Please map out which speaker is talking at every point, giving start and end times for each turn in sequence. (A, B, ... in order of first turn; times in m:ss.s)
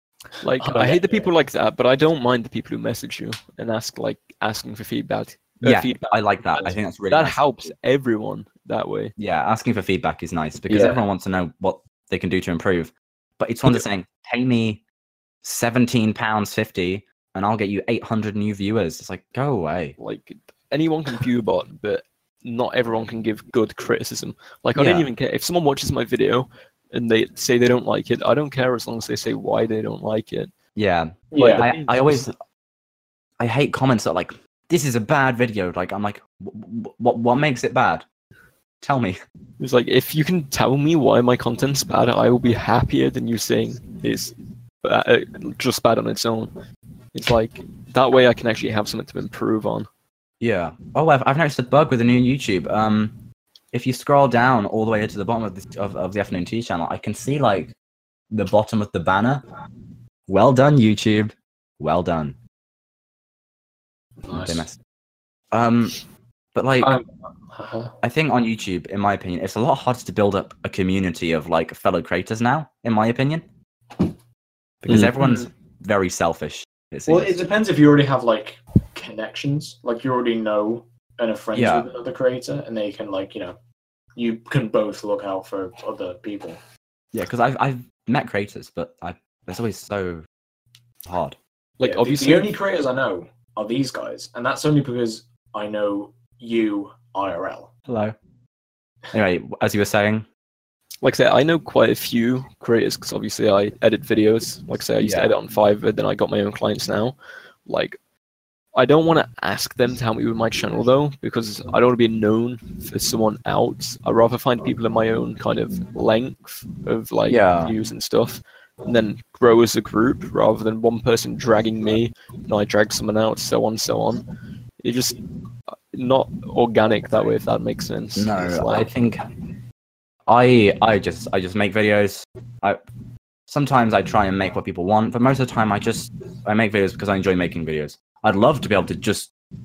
0:00.4-0:09.1 A
0:00.6-0:01.3 B
0:05.6-0:07.7 C
0:09.2-0:14.8 C
0:10.7-0:11.0 B
0:15.4-0:20.0 C
0:20.0-0:30.5 A
0:24.7-0:25.1 C
0:30.8-0:32.3 C
0:31.3-0:31.7 B
0:31.4-0:32.3 A
0:33.4-0:38.0 C
0:38.8-0:39.2 C
0:39.6-0:46.5 A
0:47.1-0:49.9 A
0:50.4-0:53.2 C
0:53.7-0:57.7 C
0:58.3-0:59.4 C
1:00.3-1:02.4 C
1:04.2-1:04.7 B
1:04.3-1:04.8 C
1:05.5-1:06.0 C
1:06.5-1:06.9 C
1:06.8-1:07.9 B
1:08.0-1:13.4 C
1:14.8-1:17.4 C
1:14.9-1:15.3 A
1:17.1-1:23.6 B
1:21.5-1:21.9 C
1:24.2-1:26.6 B
1:27.1-1:30.2 C
1:31.1-1:31.4 C
1:31.8-1:32.5 A
1:31.8-1:37.7 B
1:37.9-1:38.1 C
1:39.1-1:40.2 C
1:41.0-1:48.0 A
1:45.0-1:45.3 C
1:48.7-2:04.2 A
1:57.3-1:57.7 C
2:04.8-2:08.9 A
2:08.2-2:09.2 C
2:10.3-2:12.8 C
2:13.5-2:19.3 C